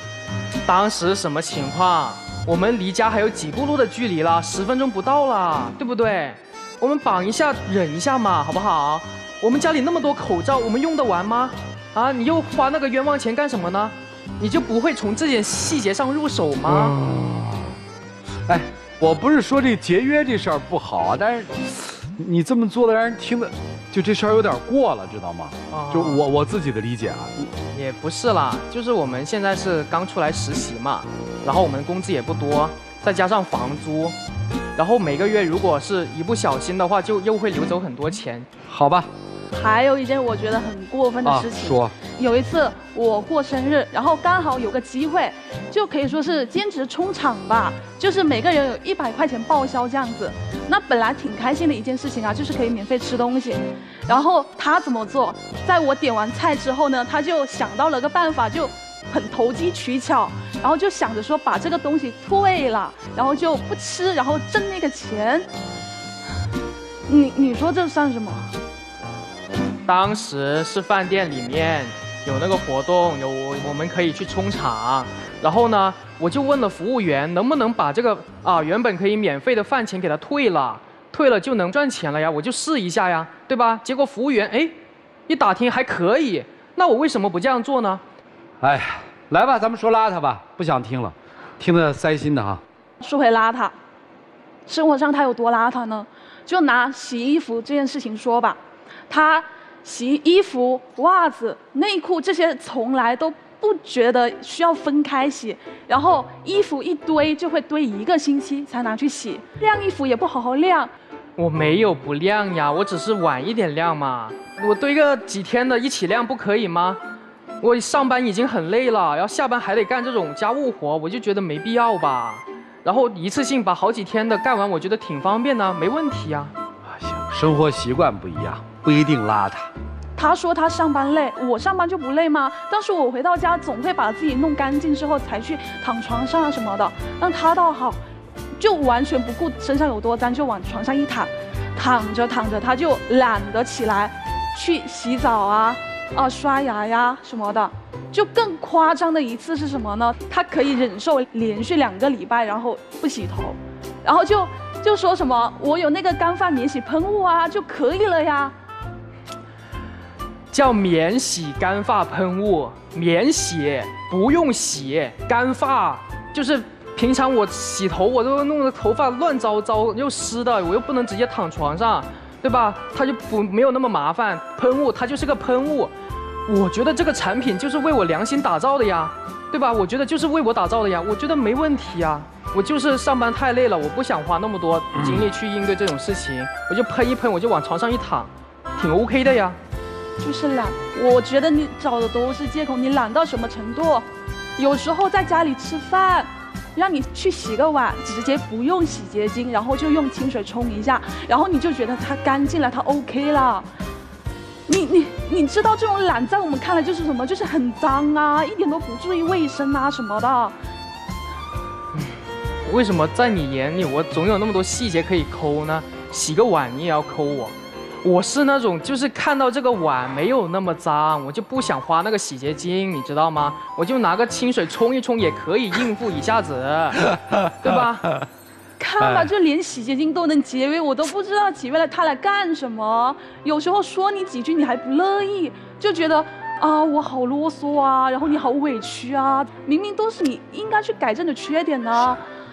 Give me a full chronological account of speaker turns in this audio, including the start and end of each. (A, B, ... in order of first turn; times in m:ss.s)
0:00.6-0:17.0 A
0:16.7-0:17.8 B
0:18.5-0:27.5 B
0:25.7-0:26.2 A
0:27.7-0:34.2 A
0:34.8-0:38.5 A
0:38.7-0:39.1 B
0:39.5-1:05.5 C
0:41.2-0:42.0 B
1:07.1-1:08.5 C
1:09.9-1:28.0 A
1:28.6-1:32.6 B
1:33.0-1:33.8 C
1:34.7-1:50.9 C
1:51.4-1:57.0 A
1:57.6-2:06.6 A
2:06.8-2:09.7 B
2:10.2-2:18.0 C
2:18.6-2:38.6 C
2:40.5-2:55.9 A
2:56.5-3:09.6 A
3:05.0-3:05.3 B
3:10.2-3:23.7 C
3:24.7-3:30.6 C
3:31.9-3:47.0 A
3:47.1-3:47.5 B
3:47.6-3:48.1 A
3:48.8-4:02.2 C
3:49.0-3:49.3 B